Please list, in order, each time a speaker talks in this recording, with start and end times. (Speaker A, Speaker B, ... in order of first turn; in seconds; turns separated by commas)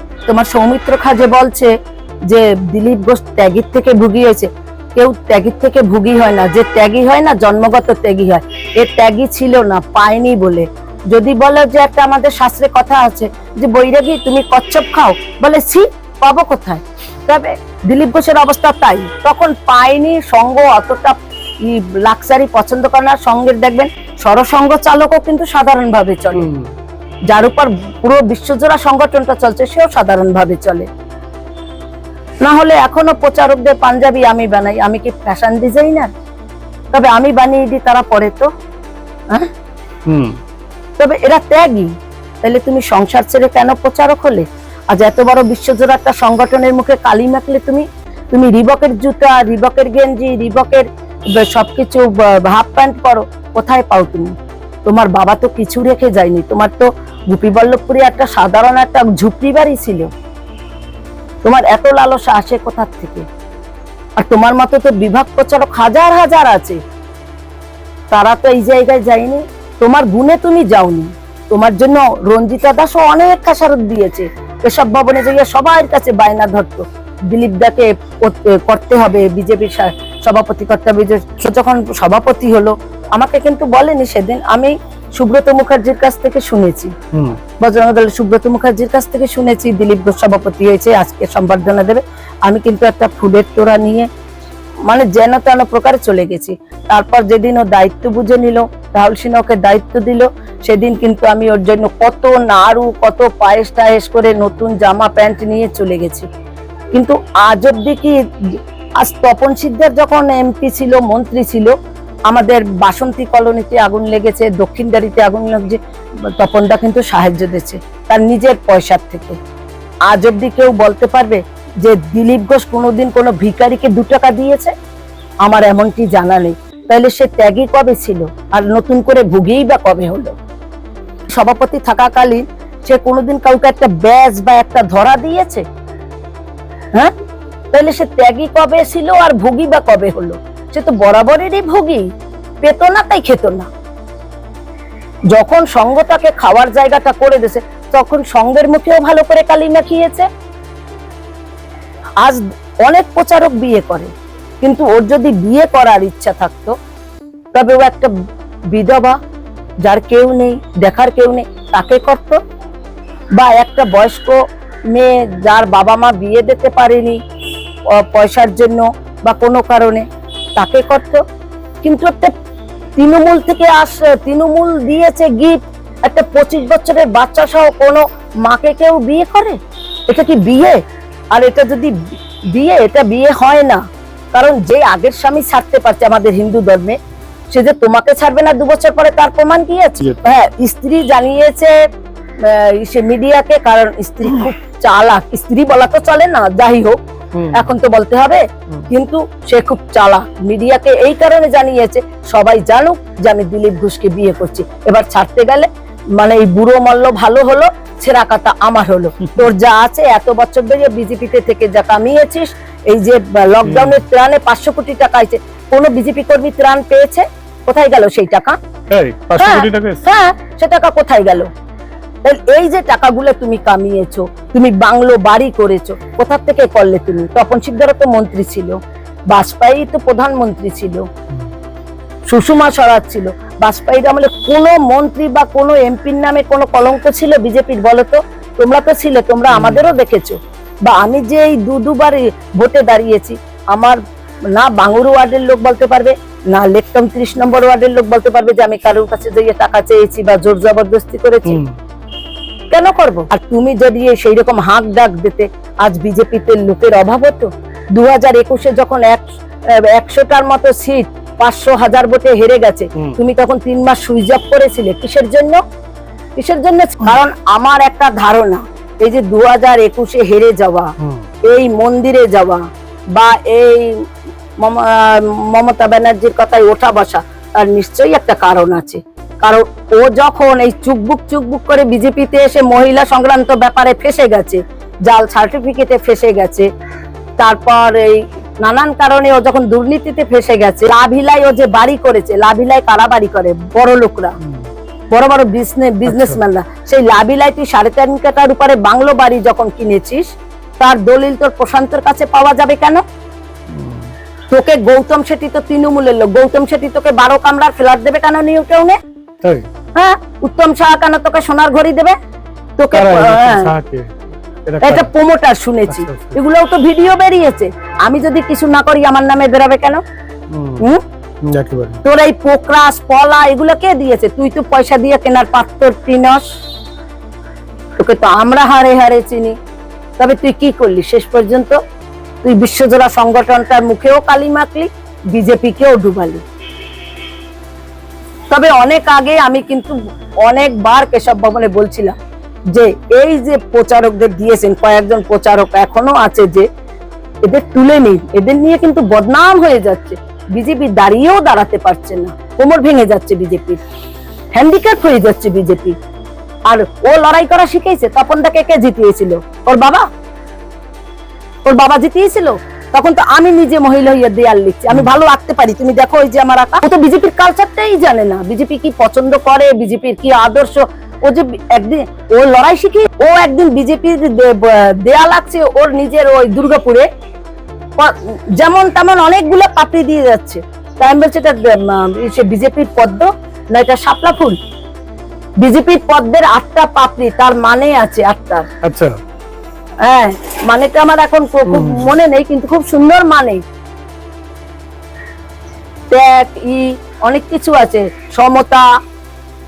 Speaker A: 0.3-1.7, Speaker A: 2.3-26.5, Speaker B: 26.3-26.7, Speaker A: 27.3-30.9, Speaker A: 32.4-36.1, Speaker A: 36.9-38.5, Speaker B: 40.1-40.4, Speaker A: 41.0-41.9, Speaker A: 42.4-54.3, Speaker A: 54.8-60.1, Speaker A: 61.4-63.2, Speaker A: 64.2-66.8, Speaker A: 68.1-86.9, Speaker B: 87.1-87.4, Speaker A: 87.6-94.1, Speaker A: 94.9-106.3, Speaker A: 106.9-111.7, Speaker A: 112.3-115.8, Speaker A: 116.4-119.4, Speaker A: 120.1-124.7, Speaker A: 125.5-130.3, Speaker A: 131.3-135.6, Speaker A: 137.7-142.1, Speaker A: 142.6-143.7, Speaker A: 145.3-150.3, Speaker A: 152.2-154.1, Speaker A: 154.6-156.8, Speaker A: 157.5-158.1, Speaker A: 158.7-159.2, Speaker A: 159.9-162.4, Speaker A: 163.4-164.4, Speaker A: 164.9-167.2, Speaker A: 167.9-170.0, Speaker A: 170.6-171.2, Speaker A: 171.8-172.3, Speaker A: 173.0-180.8, Speaker A: 181.3-181.9, Speaker A: 182.5-183.8, Speaker A: 184.3-187.0, Speaker A: 187.5-191.7, Speaker A: 192.4-197.0, Speaker B: 197.4-197.7, Speaker A: 197.5-205.7, Speaker A: 206.2-218.6, Speaker B: 218.9-220.0, Speaker A: 219.4-221.5, Speaker A: 222.2-228.8, Speaker A: 229.3-231.1, Speaker A: 232.3-244.0, Speaker B: 239.5-239.8, Speaker A: 244.6-251.6, Speaker B: 251.5-251.7, Speaker A: 252.7-259.2, Speaker A: 259.9-265.6, Speaker A: 266.4-270.9, Speaker B: 271.0-271.2, Speaker A: 271.5-272.6, Speaker A: 273.1-274.0, Speaker A: 274.6-286.7, Speaker A: 287.4-294.3, Speaker A: 295.1-300.3, Speaker B: 296.1-296.4, Speaker A: 300.8-303.0, Speaker B: 303.7-304.1, Speaker A: 304.5-309.0, Speaker A: 309.9-312.1, Speaker A: 312.8-313.7, Speaker B: 312.9-314.1, Speaker B: 314.7-315.1, Speaker A: 314.8-320.0, Speaker B: 315.9-316.4, Speaker B: 320.5-320.8, Speaker B: 321.4-322.0, Speaker A: 322.1-326.4, Speaker A: 328.0-329.5, Speaker A: 330.2-331.8, Speaker A: 332.4-336.4, Speaker A: 338.5-339.9, Speaker A: 340.4-342.1, Speaker A: 342.7-346.7, Speaker A: 347.4-353.8, Speaker A: 354.6-355.9, Speaker A: 356.7-360.0, Speaker A: 361.6-377.1, Speaker A: 378.0-384.6, Speaker A: 385.6-388.7, Speaker B: 388.8-389.1, Speaker A: 390.0-393.6, Speaker B: 391.7-392.1, Speaker A: 396.1-398.9